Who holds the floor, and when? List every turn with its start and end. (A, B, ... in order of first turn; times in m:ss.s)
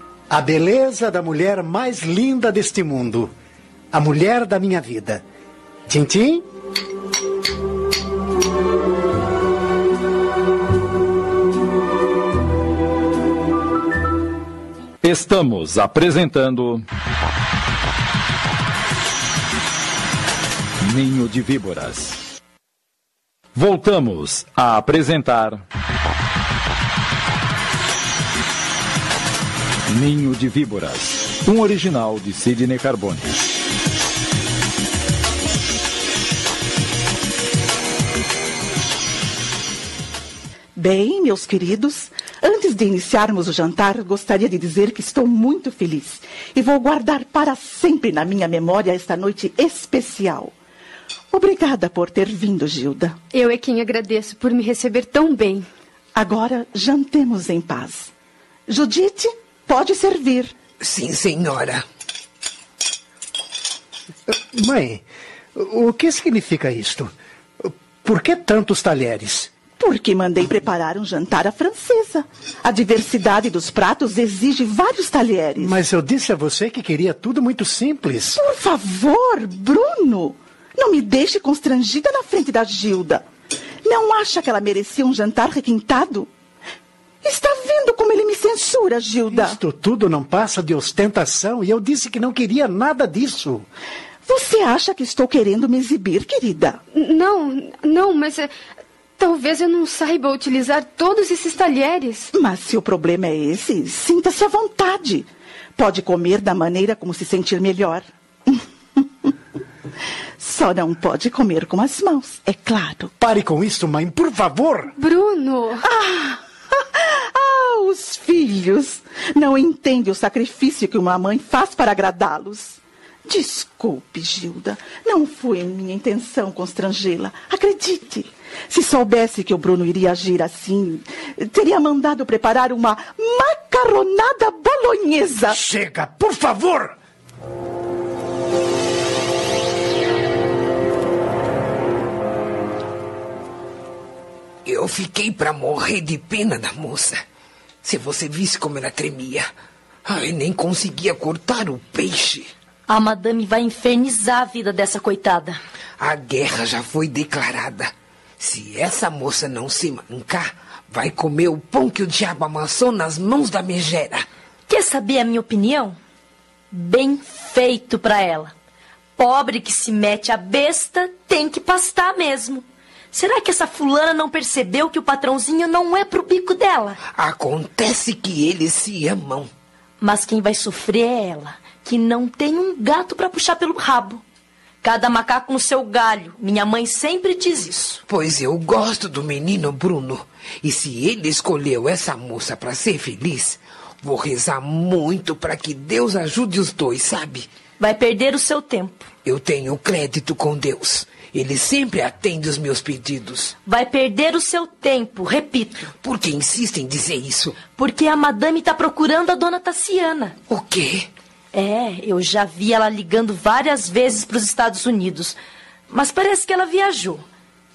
0:00.3-0:03.3 A
0:03.9-0:05.2 A
0:05.9-0:06.4 A
0:15.0-0:16.8 B
0:20.8-0:22.2 B
0:23.6-0:25.6 B
0:29.9-0:33.4 B
0:40.8-0:50.5 C
0:51.3-0:53.2 C
0:53.3-0:55.7 D
0:56.1-0:58.1 C
0:58.7-1:00.6 C
1:00.8-1:01.8 E
1:04.3-1:05.0 A
1:05.6-1:07.1 A
1:07.6-1:09.5 A
1:09.8-1:15.8 C
1:15.6-1:18.4 A
1:18.4-1:23.2 C
1:23.8-1:26.3 C
1:27.2-1:29.6 C
1:29.3-1:33.7 A
1:34.3-1:36.8 C
1:36.9-1:38.5 D
1:39.2-1:42.3 D
1:42.3-1:49.3 C
1:50.4-1:53.1 C
1:53.2-1:54.9 A
1:55.0-1:55.8 D
1:55.8-2:15.6 C
2:15.5-2:17.0 A
2:24.7-2:27.2 E
2:27.8-2:29.5 E
2:30.1-2:32.5 E
2:32.9-2:35.6 F
2:36.0-2:44.2 E
2:44.7-2:46.0 F
2:46.7-2:48.5 F
2:49.2-2:57.0 F
2:57.2-2:59.5 E
3:00.0-3:04.2 F
3:04.8-3:08.0 F
3:08.1-3:17.5 E
3:17.8-3:19.1 F
3:19.2-3:23.6 E
3:23.6-3:25.9 F
3:26.0-3:27.6 E
3:27.7-3:30.4 F
3:30.5-3:31.1 E
3:31.5-3:35.4 F
3:35.9-3:37.2 F